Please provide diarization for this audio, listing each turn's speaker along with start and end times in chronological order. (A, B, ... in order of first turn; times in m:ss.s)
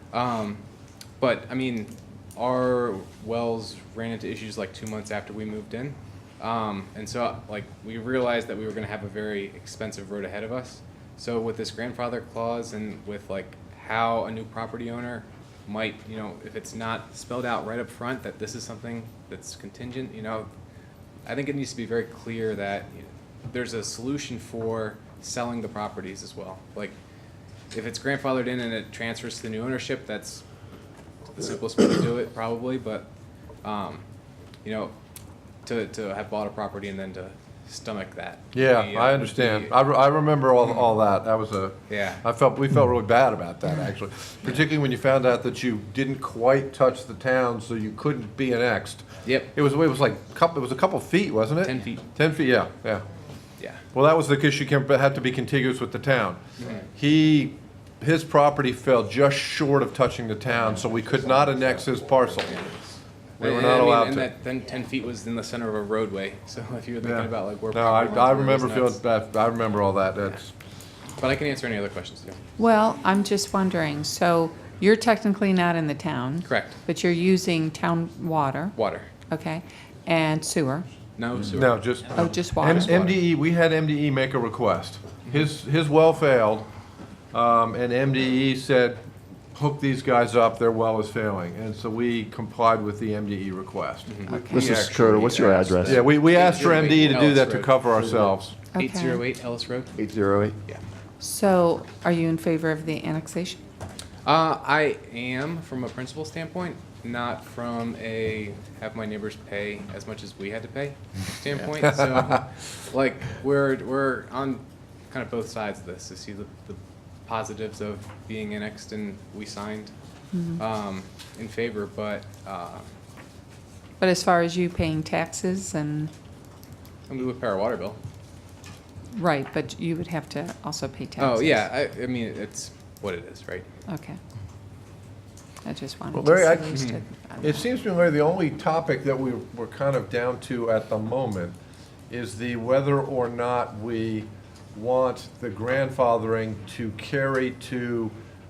0:00.1-0:00.6 A
0:01.2-0:20.5 A
0:21.2-0:27.0 A
0:27.7-0:30.4 A
0:31.3-0:33.1 A
0:33.6-0:34.0 A
0:34.6-0:34.9 A
0:35.6-0:39.7 A
0:38.5-0:53.0 B
0:41.9-0:42.2 A
0:49.2-0:49.5 A
0:51.6-0:52.0 A
0:53.9-0:56.4 B
0:56.6-0:56.8 A
0:56.9-1:02.6 B
1:02.4-1:02.7 A
1:03.4-1:04.3 B
1:03.4-1:09.0 A
1:07.0-1:10.5 B
1:11.2-1:12.4 A
1:12.6-1:18.8 C
1:16.4-1:16.8 A
1:18.7-1:19.1 A
1:19.3-1:20.8 C
1:21.2-1:22.1 A
1:21.4-1:26.7 B
1:22.1-1:23.1 C
1:22.8-1:23.1 A
1:27.3-1:29.0 B
1:29.5-1:38.5 B
1:34.1-1:40.0 A
1:34.3-1:34.7 C
1:34.3-1:36.1 D
1:38.0-1:38.3 D
1:38.7-1:39.2 C
1:40.0-1:40.6 D
1:41.2-1:43.6 C
1:44.2-1:59.9 A
2:00.3-2:00.6 C
2:00.6-2:02.9 A
2:04.0-2:06.1 C
2:07.1-2:08.0 A
2:09.1-2:11.7 C
2:11.2-2:13.6 A
2:13.9-2:14.2 C
2:15.6-2:17.6 C
2:16.1-2:21.5 B
2:22.1-2:28.1 B